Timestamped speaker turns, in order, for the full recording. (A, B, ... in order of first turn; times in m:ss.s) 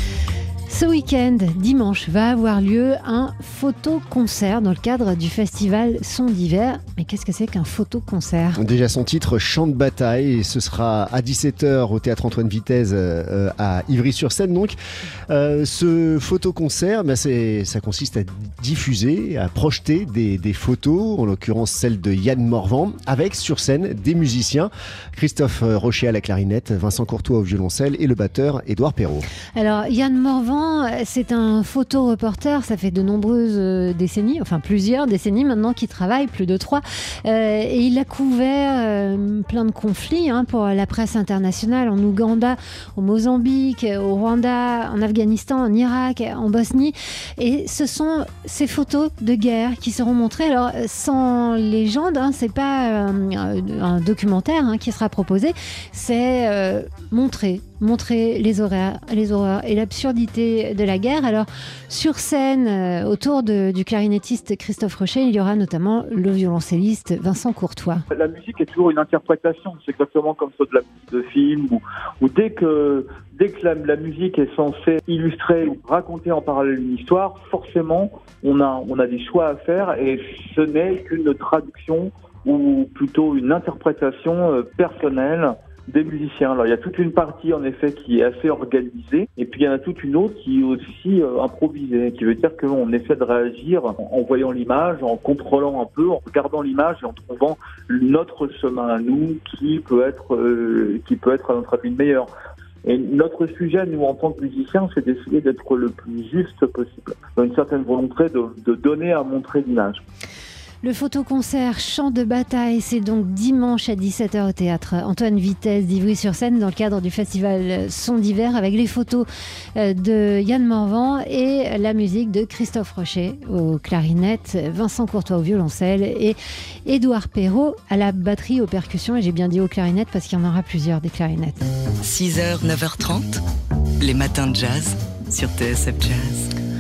0:00.7-0:08.6 A
0:08.6-0:14.8 B
0:15.3-0:29.3 B
0:29.6-1:08.0 A
1:08.1-1:42.3 C
1:42.8-1:50.0 C
1:50.8-2:11.7 A
2:12.0-2:13.4 D
2:14.0-2:16.5 D